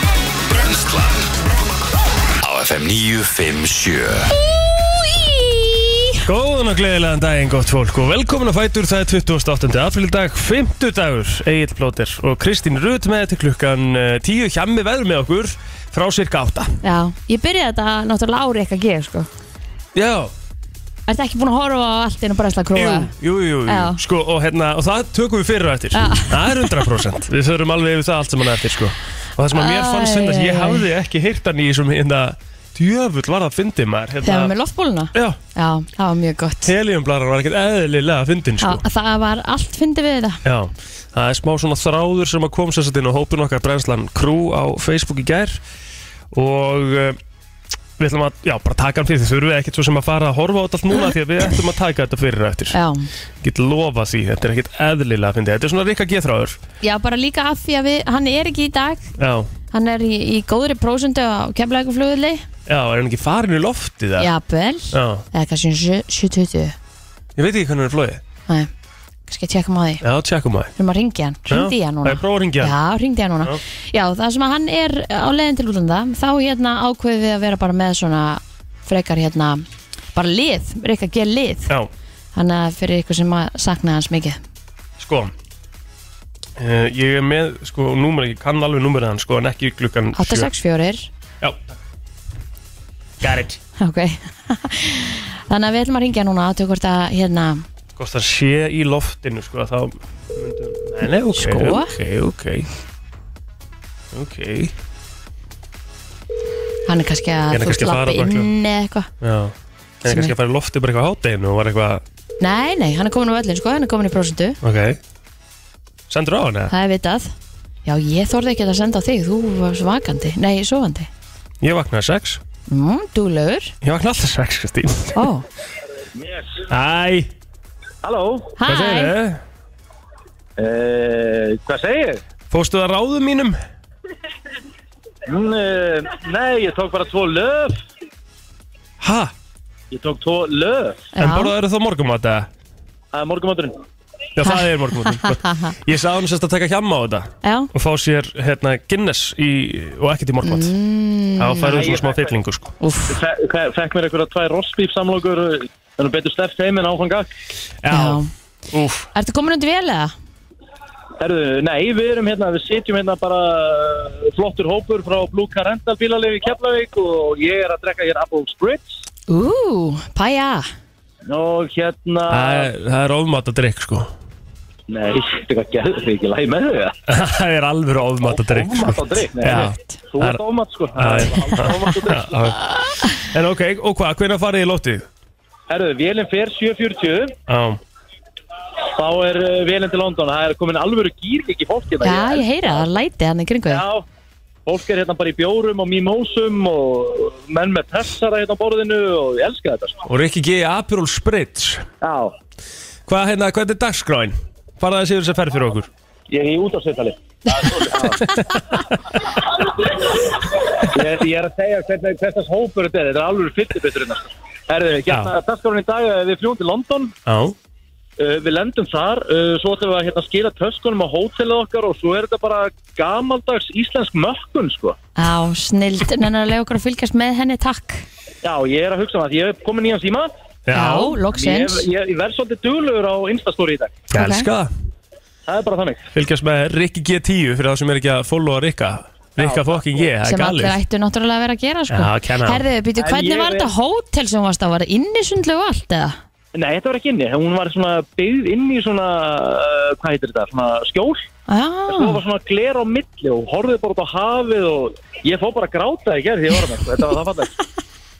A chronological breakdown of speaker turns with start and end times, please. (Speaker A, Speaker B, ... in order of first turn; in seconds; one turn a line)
Speaker A: 0.5-1.3
Speaker A: 2.4-4.3
Speaker B: 4.9-6.1
Speaker C: 6.2-16.7
Speaker B: 16.8-19.3
Speaker C: 19.9-20.3
Speaker B: 21.1-23.1
Speaker C: 22.7-34.5
Speaker B: 23.7-24.0
Speaker B: 25.9-26.9
Speaker B: 29.5-30.8
Speaker B: 34.2-36.7
Speaker C: 35.1-35.4
Speaker C: 36.6-38.8
Speaker B: 38.6-40.4
Speaker C: 40.4-45.6
Speaker C: 46.3-47.2
Speaker C: 48.0-52.8
Speaker B: 52.7-53.1
Speaker C: 53.4-56.6
Speaker B: 56.8-59.0
Speaker C: 59.2-59.5
Speaker B: 59.7-62.4
Speaker C: 62.7-64.3
Speaker B: 64.2-66.7
Speaker C: 64.9-65.2
Speaker C: 67.4-68.2
Speaker B: 69.3-70.0
Speaker C: 70.0-70.7
Speaker B: 70.8-81.7
Speaker C: 71.5-72.7
Speaker B: 82.3-84.4
Speaker C: 85.0-85.3
Speaker C: 86.6-90.5
Speaker B: 90.2-91.1
Speaker C: 93.2-93.6
Speaker B: 93.8-97.6
Speaker C: 98.0-102.7
Speaker B: 101.3-101.9
Speaker C: 104.1-104.7
Speaker B: 106.9-109.1
Speaker C: 107.5-108.5
Speaker C: 109.2-112.0
Speaker B: 110.1-110.3
Speaker B: 112.4-114.6
Speaker C: 114.6-115.0
Speaker C: 116.1-116.7
Speaker B: 116.7-117.3
Speaker B: 117.8-121.1
Speaker C: 121.6-122.4
Speaker B: 122.7-123.7
Speaker C: 123.8-125.2
Speaker B: 125.1-125.5
Speaker D: 126.2-126.6
Speaker C: 126.7-127.3
Speaker D: 128.0-128.5
Speaker B: 128.6-129.1
Speaker C: 128.7-129.4
Speaker D: 130.6-132.2
Speaker C: 132.5-133.6
Speaker D: 135.2-137.8
Speaker C: 139.0-139.3
Speaker D: 139.9-141.0
Speaker B: 141.1-141.5
Speaker C: 141.2-142.5
Speaker D: 143.1-143.8
Speaker C: 144.3-150.7
Speaker B: 144.4-145.7
Speaker B: 147.4-147.7
Speaker B: 150.4-151.8
Speaker C: 151.4-152.7
Speaker D: 151.6-152.3
Speaker B: 152.8-153.2
Speaker D: 153.1-157.3
Speaker C: 157.8-158.2
Speaker B: 157.9-158.3
Speaker C: 158.7-159.1
Speaker B: 159.1-160.1
Speaker D: 161.2-169.0
Speaker B: 169.3-170.7
Speaker D: 171.2-172.7
Speaker C: 172.3-174.1
Speaker D: 174.9-176.9
Speaker C: 177.1-180.4
Speaker D: 178.3-182.5
Speaker C: 181.0-185.1
Speaker D: 185.7-187.3
Speaker C: 187.5-187.8
Speaker D: 188.8-192.8
Speaker B: 192.0-193.8
Speaker D: 193.7-194.0
Speaker D: 194.6-200.0
Speaker C: 200.1-201.8
Speaker D: 202.0-202.3
Speaker C: 203.1-205.9
Speaker D: 206.3-208.2
Speaker C: 208.2-208.8
Speaker D: 209.6-210.1
Speaker D: 210.8-217.1
Speaker C: 215.1-215.3
Speaker C: 217.2-217.5
Speaker D: 218.2-224.9
Speaker B: 225.2-228.1
Speaker D: 228.4-230.3
Speaker C: 230.7-231.2
Speaker B: 230.7-231.8
Speaker D: 231.3-234.0
Speaker B: 234.1-234.5
Speaker C: 234.1-234.7
Speaker D: 235.5-236.1
Speaker C: 236.1-240.8
Speaker D: 239.4-240.1
Speaker B: 240.2-246.2
Speaker C: 241.9-242.6
Speaker D: 243.0-243.7
Speaker D: 246.5-251.2
Speaker B: 251.5-252.2
Speaker D: 251.9-257.5